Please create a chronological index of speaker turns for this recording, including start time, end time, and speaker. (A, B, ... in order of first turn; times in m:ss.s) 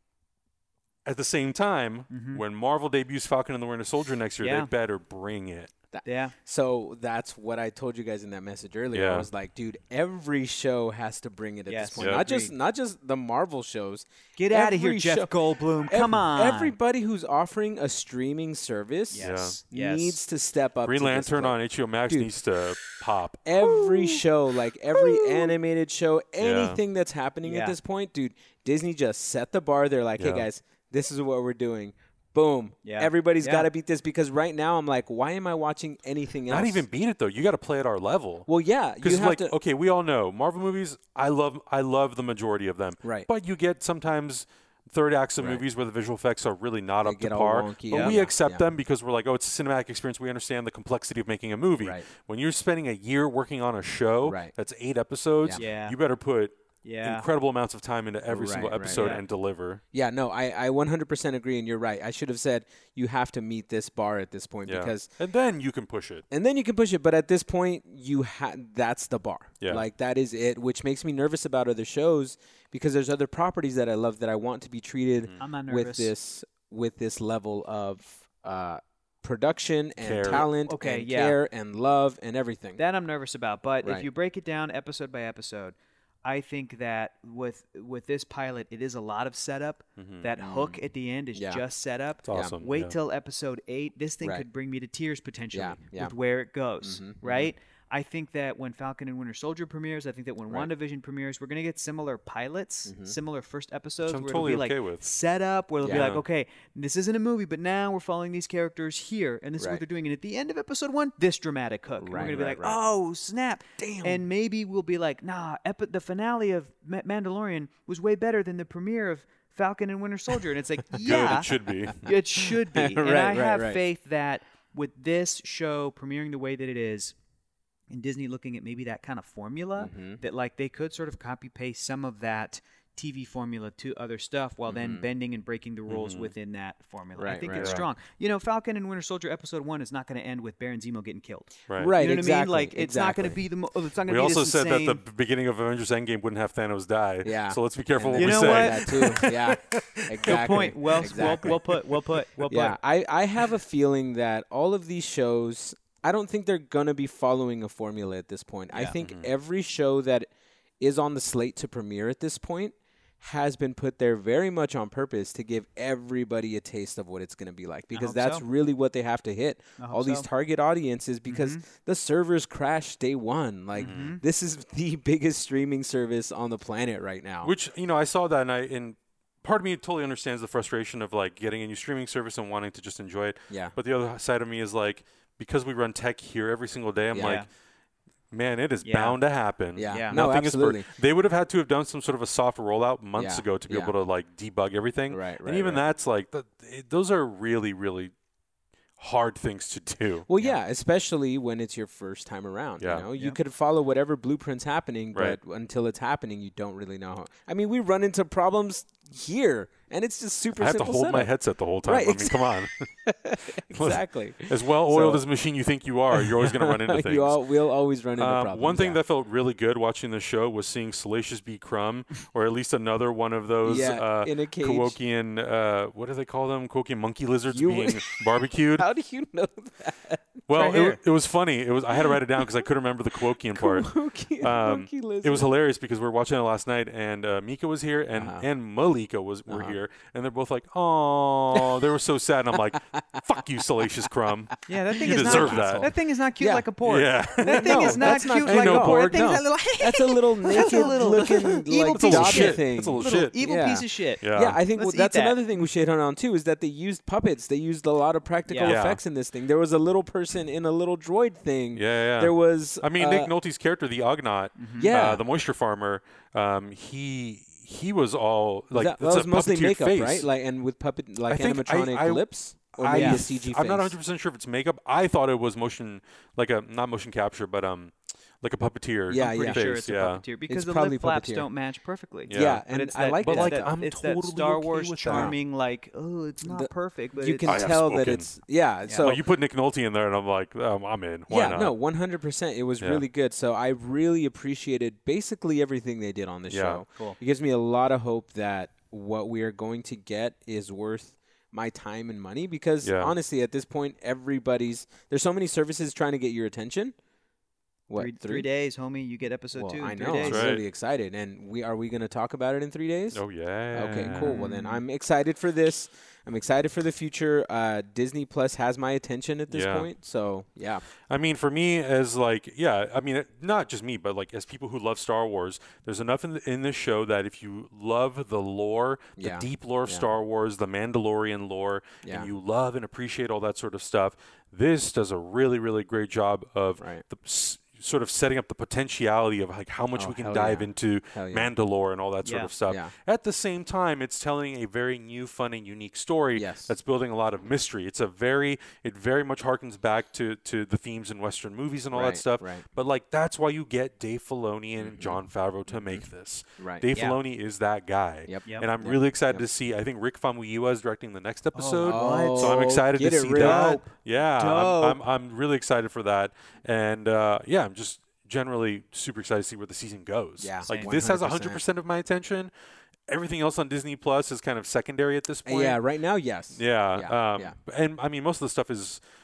0:01.0-0:05.7 A
0:02.1-0:02.4 B
0:04.4-0:04.7 B
0:05.9-0:21.6 C
0:06.0-0:06.3 B
0:08.9-0:09.3 A
0:11.7-0:12.5 B
0:14.4-0:16.8 B
0:19.1-0:20.2 B
0:19.2-0:19.6 A
0:20.8-0:23.6 A
0:23.4-0:36.8 C
0:23.6-0:24.2 B
0:25.0-0:25.5 B
0:26.4-0:26.8 A
0:27.4-0:27.8 B
0:30.2-0:30.4 A
0:32.8-0:33.7 B
0:36.5-0:38.5 A
0:38.5-0:39.5 C
0:39.0-0:59.8 A
0:45.4-0:45.6 C
0:47.0-0:48.6 C
0:47.9-0:48.2 B
0:51.8-0:52.0 C
0:54.2-0:54.5 C
0:55.5-0:56.0 B
0:56.8-0:57.3 B
0:58.3-0:59.1 C
0:58.8-0:59.2 B
0:59.9-1:05.1 C
1:04.6-1:06.2 A
1:06.3-1:22.8 C
1:15.4-1:16.1 B
1:20.0-1:20.4 A
1:20.3-1:21.4 B
1:22.8-2:07.2 B
1:30.0-1:30.3 A
1:30.4-1:30.8 C
1:31.3-1:31.6 C
1:32.2-1:33.0 A
1:35.5-1:36.1 C
1:36.8-1:37.5 C
1:42.8-1:43.1 C
1:44.0-1:45.1 A
1:45.8-1:46.1 C
1:45.8-1:46.2 A
1:52.0-1:52.8 C
1:53.8-1:54.2 C
2:01.0-2:02.0 A
2:01.1-2:01.4 C
2:02.7-2:03.8 C
2:07.9-2:25.0 B
2:09.8-2:10.2 C
2:14.7-2:15.0 C
2:15.9-2:16.3 A
2:17.2-2:17.8 C
2:17.4-2:17.8 A
2:21.7-2:21.9 A
2:21.8-2:23.4 C
2:24.1-2:31.6 A
2:27.2-2:31.6 C
2:28.2-2:29.3 B
2:30.2-2:32.8 B
2:32.5-2:57.5 C
2:38.7-2:39.0 B
2:39.0-2:39.3 A
2:47.9-2:48.4 B
2:49.8-2:50.3 B
2:51.3-2:51.6 B
2:53.8-2:54.2 B
2:53.8-2:54.1 A
2:57.4-3:07.5 A
3:07.1-3:07.4 C
3:07.2-3:07.5 B
3:08.3-3:18.1 A
3:08.8-3:09.2 B
3:09.8-3:10.9 C
3:09.9-3:10.2 B
3:13.1-3:13.9 C
3:15.1-3:15.8 C
3:19.0-3:20.3 A
3:20.3-3:31.3 C
3:22.8-3:23.1 A
3:30.6-3:32.8 A
3:31.8-3:35.2 C
3:33.6-3:37.4 A
3:36.1-3:39.0 C
3:38.2-3:48.8 A
3:43.6-3:45.0 C
3:47.5-3:48.2 C
3:48.8-3:50.4 C
3:50.5-4:05.9 A
3:50.5-3:51.0 B
3:51.9-3:52.6 C
3:53.5-3:55.5 C
3:58.1-3:58.4 C
3:59.5-3:59.8 C
4:01.5-4:01.9 C
4:02.9-4:03.4 C
4:04.7-4:15.4 B
4:04.9-4:06.7 C
4:06.8-4:09.4 A
4:07.4-4:23.3 C
4:10.5-4:13.3 A
4:14.2-4:14.6 A
4:18.5-4:18.8 B
4:18.6-4:19.0 A
4:21.7-4:30.3 A
4:24.6-4:24.9 B
4:24.8-4:25.2 C
4:28.7-4:33.9 C
4:31.3-4:40.2 A
4:32.9-4:33.2 B
4:39.1-4:39.7 C
4:39.1-4:47.8 B
4:40.5-4:41.5 C
4:42.3-4:42.6 A
4:42.3-4:43.7 C
4:43.2-4:45.3 A
4:45.1-4:45.3 C
4:46.4-4:49.2 C
4:47.5-4:48.2 A
4:48.8-4:49.1 B
4:49.0-4:51.7 A
4:51.3-5:07.0 C
4:56.5-4:56.8 A
5:02.8-5:03.1 A
5:07.9-5:08.5 C
5:08.0-5:10.5 B
5:09.5-5:13.2 C
5:10.2-5:10.6 A
5:13.1-5:14.4 A
5:13.7-5:20.8 C
5:14.2-5:14.8 B
5:19.5-5:19.9 A
5:21.1-6:12.5 A
5:29.2-5:30.1 C
5:32.0-5:32.3 C
5:36.8-5:37.0 C
5:40.0-5:41.5 C
5:42.2-5:42.5 B
5:42.7-5:42.9 C
5:46.4-5:46.7 C
5:51.9-5:52.6 C
5:54.8-5:55.2 C
5:55.7-5:56.0 C
5:56.6-5:56.8 C
5:56.9-5:57.2 B
5:58.3-5:59.5 C
6:01.5-6:02.6 B
6:01.8-6:03.8 C
6:03.3-6:05.0 B
6:10.4-6:11.6 C
6:10.7-6:11.0 B
6:13.1-6:15.8 A
6:15.4-6:17.6 C
6:16.6-6:19.0 A